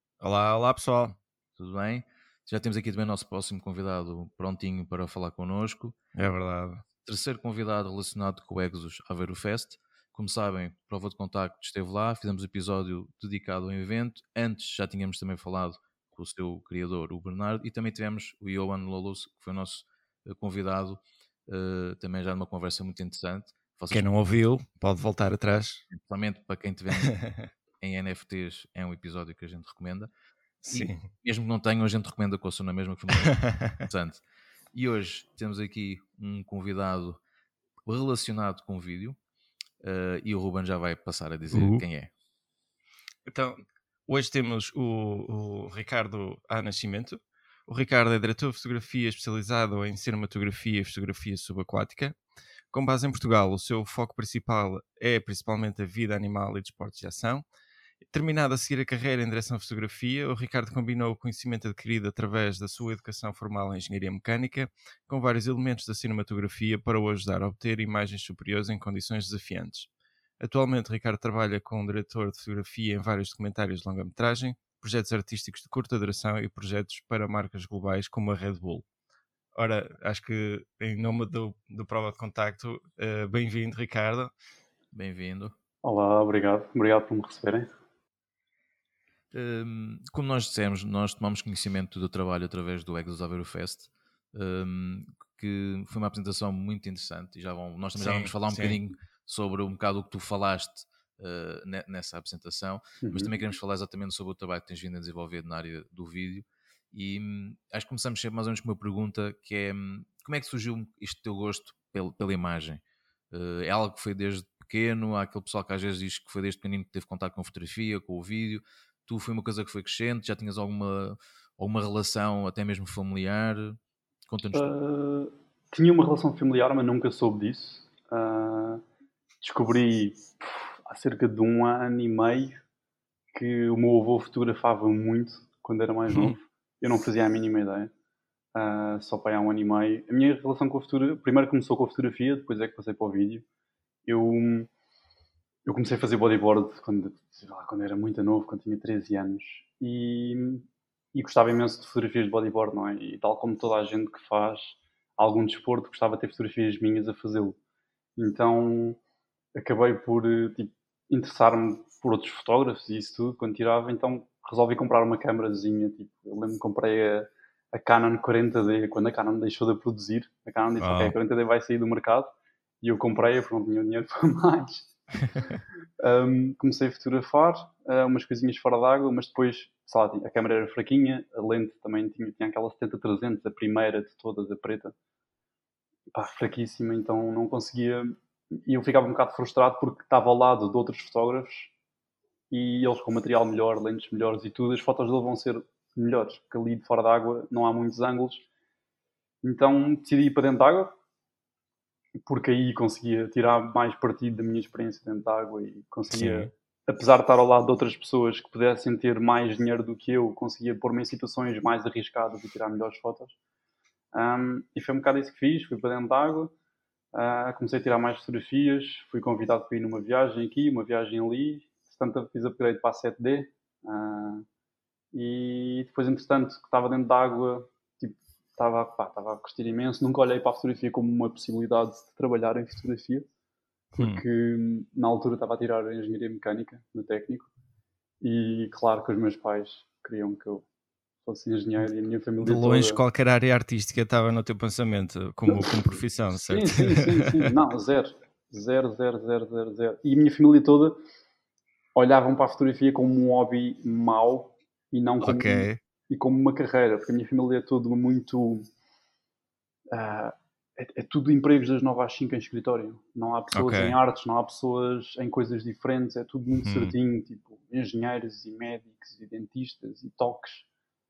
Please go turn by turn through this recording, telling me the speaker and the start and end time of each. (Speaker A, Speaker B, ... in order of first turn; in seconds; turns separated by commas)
Speaker A: 0.2-1.1, Speaker B: 1.6-6.0, Speaker A: 6.1-6.8, Speaker B: 7.0-24.1, Speaker A: 23.9-25.8, Speaker B: 25.9-27.1, Speaker A: 27.0-27.4, Speaker B: 27.8-30.1, Speaker A: 30.6-31.1, Speaker B: 30.7-37.2, Speaker A: 33.2-33.8, Speaker B: 37.9-39.2, Speaker B: 39.8-42.1, Speaker A: 41.5-41.8, Speaker A: 43.2-52.2, Speaker A: 52.7-57.4, Speaker A: 58.0-69.9, Speaker A: 70.4-78.8, Speaker A: 79.5-84.3, Speaker B: 84.9-85.5, Speaker C: 85.8-87.7, Speaker B: 89.3-124.7, Speaker A: 98.0-98.8, Speaker C: 103.0-103.3, Speaker C: 124.5-128.8, Speaker C: 129.4-132.6, Speaker C: 133.3-137.9, Speaker C: 138.5-143.4, Speaker C: 144.1-144.7, Speaker C: 145.7-157.6, Speaker C: 158.2-159.0, Speaker C: 159.5-172.3, Speaker A: 170.8-171.1, Speaker C: 172.8-174.9, Speaker C: 176.0-184.9, Speaker C: 186.1-191.7, Speaker C: 192.5-198.4, Speaker C: 199.4-200.9, Speaker C: 202.2-213.3, Speaker A: 206.1-206.5, Speaker C: 214.1-216.5, Speaker C: 217.1-224.4, Speaker C: 225.1-233.3, Speaker A: 233.9-234.2, Speaker C: 233.9-237.5, Speaker C: 238.2-240.7, Speaker C: 241.2-243.0, Speaker A: 242.4-247.5, Speaker C: 245.5-251.0, Speaker C: 251.9-258.6, Speaker A: 255.2-255.8, Speaker C: 259.9-270.7, Speaker A: 263.5-264.0, Speaker A: 266.6-266.9